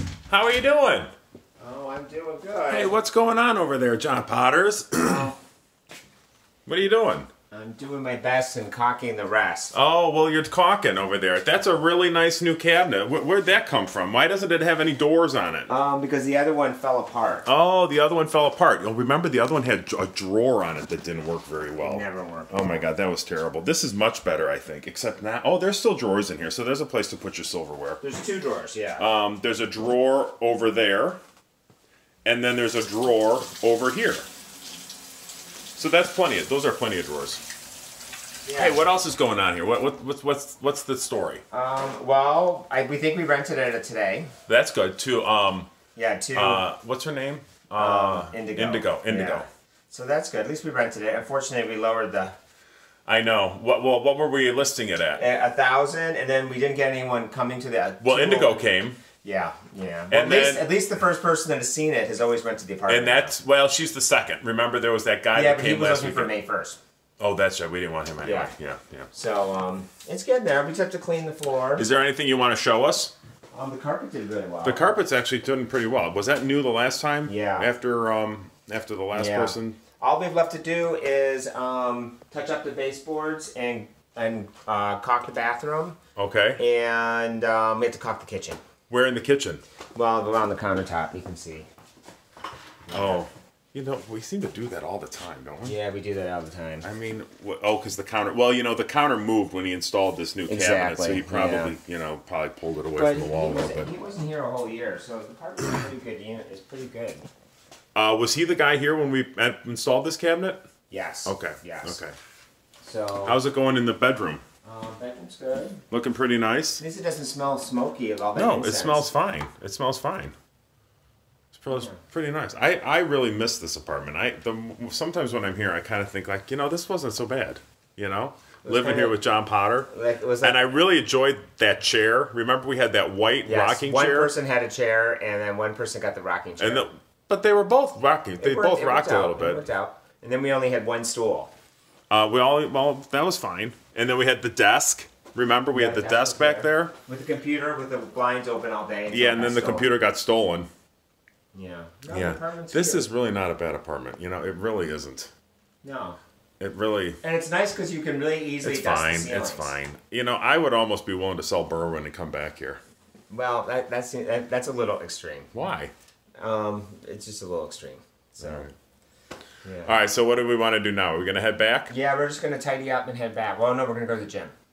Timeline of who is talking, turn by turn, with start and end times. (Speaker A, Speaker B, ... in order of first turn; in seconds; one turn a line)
Speaker A: 0.3-1.1
Speaker B: 1.6-2.9
Speaker A: 2.7-5.3
Speaker B: 5.0-5.3
Speaker A: 6.7-7.3
Speaker B: 7.5-9.7
Speaker A: 9.7-15.7
Speaker B: 15.7-17.5
Speaker A: 17.4-28.0
Speaker B: 21.8-22.8
Speaker B: 28.0-29.0
Speaker A: 29.0-31.2
Speaker A: 32.2-34.2
Speaker A: 35.8-37.4
Speaker B: 38.4-38.8
Speaker A: 38.5-41.4
Speaker B: 41.5-44.3
Speaker A: 44.5-45.7
Speaker B: 45.9-46.6
Speaker A: 46.3-49.5
Speaker B: 47.7-52.3
Speaker A: 53.0-55.2
Speaker B: 55.2-63.3
Speaker A: 58.0-59.0
Speaker A: 60.1-60.7
Speaker A: 62.9-66.3
Speaker B: 65.3-66.8
Speaker A: 67.2-69.1
Speaker B: 68.2-68.5
Speaker B: 69.1-71.9
Speaker A: 71.8-73.1
Speaker B: 73.5-74.9
Speaker A: 74.6-79.8
Speaker B: 77.3-77.7
Speaker B: 79.1-86.0
Speaker A: 86.2-86.6
Speaker B: 86.6-88.6
Speaker A: 88.9-89.6
Speaker B: 89.9-91.7
Speaker B: 92.9-93.2
Speaker A: 92.9-95.8
Speaker B: 95.6-96.8
Speaker A: 96.8-103.9
Speaker B: 100.5-101.7
Speaker B: 102.9-107.2
Speaker A: 107.9-110.6
Speaker B: 110.9-112.0
Speaker A: 111.2-112.1
Speaker B: 112.8-113.4
Speaker A: 113.2-114.4
Speaker B: 114.6-115.8
Speaker A: 115.9-116.8
Speaker B: 116.8-119.1
Speaker A: 118.3-120.3
Speaker A: 121.5-129.9
Speaker B: 121.7-122.0
Speaker B: 128.6-129.2
Speaker B: 129.9-130.6
Speaker A: 130.4-134.3
Speaker B: 133.4-136.9
Speaker A: 136.6-139.6
Speaker B: 138.4-141.5
Speaker A: 142.1-146.9
Speaker B: 145.7-149.9
Speaker A: 149.1-150.7
Speaker B: 151.5-153.1
Speaker A: 152.1-155.3
Speaker B: 155.8-156.2
Speaker A: 156.6-157.2
Speaker B: 157.2-159.7
Speaker A: 158.6-162.8
Speaker B: 163.3-165.5
Speaker A: 165.5-165.9
Speaker B: 166.4-168.7
Speaker A: 168.4-168.7
Speaker B: 169.6-170.0
Speaker A: 169.8-171.9
Speaker B: 171.9-174.5